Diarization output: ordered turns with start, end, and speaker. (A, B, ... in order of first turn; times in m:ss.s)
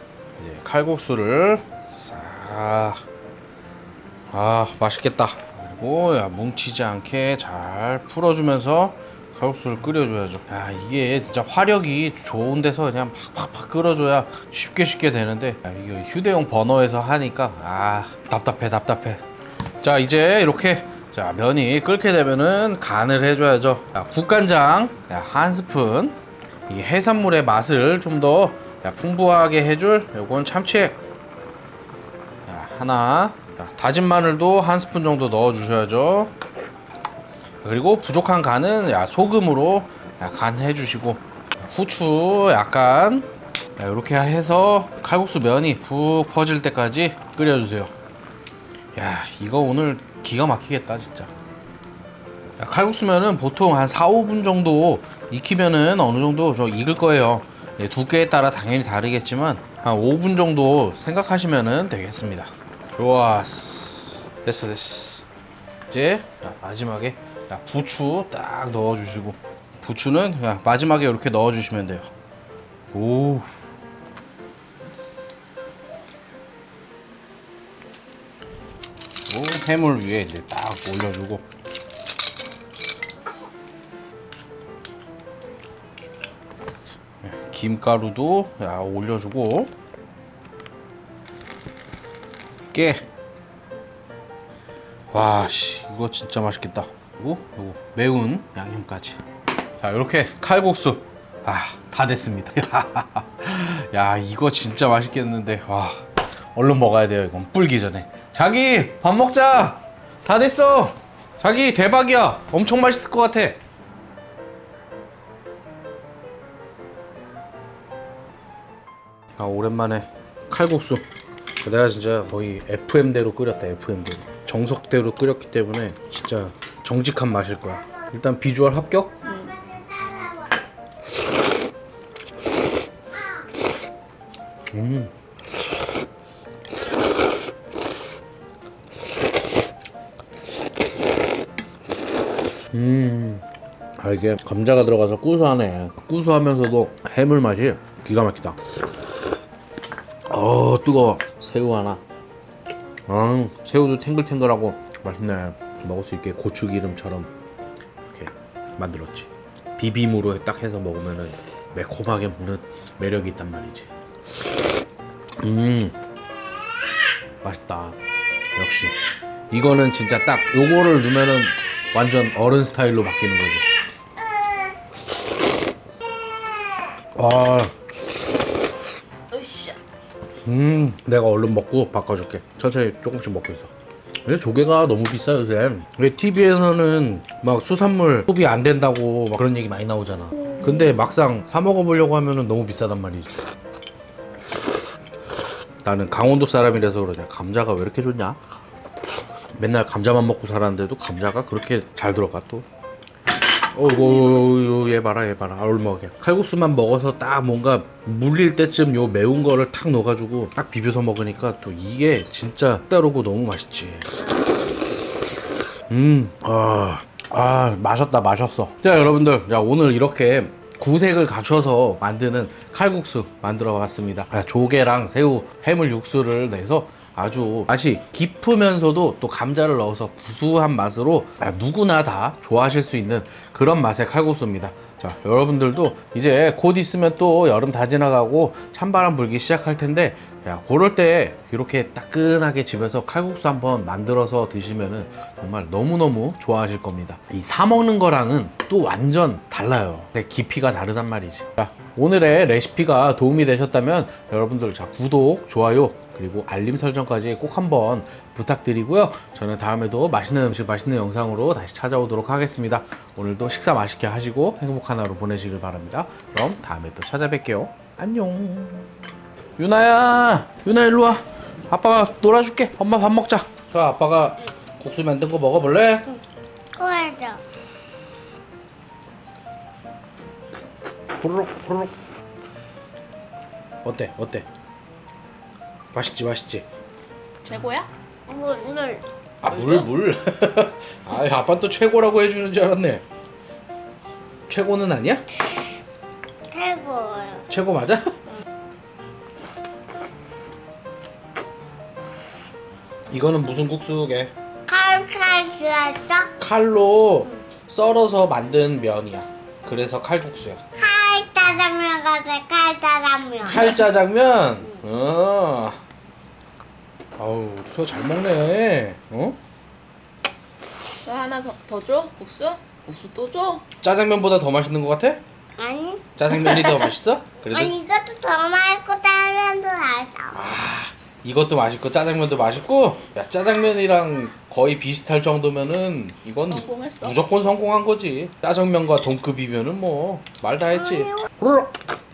0:00.4-0:03.0 A
0:04.3-0:19.2 A
0:19.8-0:26.2 A
0:26.7-0:31.0 A
0:32.5-0:36.3 A
0:37.6-0:47.9 A
0:49.0-0:51.3 A
0:52.6-1:05.2 A
1:05.9-1:12.1 A
1:12.9-1:13.6 A
1:19.3-1:21.4 A
1:27.2-1:29.7 A
1:32.7-1:33.1 A
1:35.1-1:39.2 A
1:39.8-1:53.6 A
1:59.4-2:01.0 A
2:01.6-2:09.4 A
2:09.3-2:09.6 B
2:09.5-2:10.5 C
2:14.7-2:15.1 A
2:22.7-2:23.5 A
2:24.0-2:28.6 A
2:30.3-2:32.0 A
2:33.1-2:37.3 A
2:38.1-2:43.9 A
2:45.4-2:46.0 A
2:47.4-2:48.0 A
2:48.6-2:49.0 A
2:49.5-2:53.6 A
2:57.2-2:57.7 A
2:59.3-2:59.8 B
3:00.4-3:03.7 A
3:04.3-3:13.3 A
3:15.8-3:18.4 A
3:19.6-3:22.7 A
3:23.7-3:34.2 A
3:35.9-4:28.9 A
4:29.6-4:36.1 A
4:36.8-4:37.4 C
4:41.2-4:42.0 A
4:43.8-4:44.5 A
4:45.9-4:46.6 A
4:47.4-4:47.9 B
4:48.3-4:49.0 C
4:49.4-4:53.0 A
4:49.5-4:49.9 B
4:54.5-4:55.3 A
4:56.5-4:57.5 C
4:57.5-4:58.1 A
5:03.1-5:04.3 A
5:04.7-5:06.3 C
5:06.4-5:10.6 A
5:10.8-5:13.8 C
5:13.4-5:15.8 A
5:17.2-5:19.4 A
5:21.0-5:23.6 B
5:23.8-5:25.2 A
5:25.6-5:26.9 C
5:26.2-5:27.7 A
5:27.5-5:30.5 C
5:30.3-5:41.7 A
5:36.5-5:37.2 B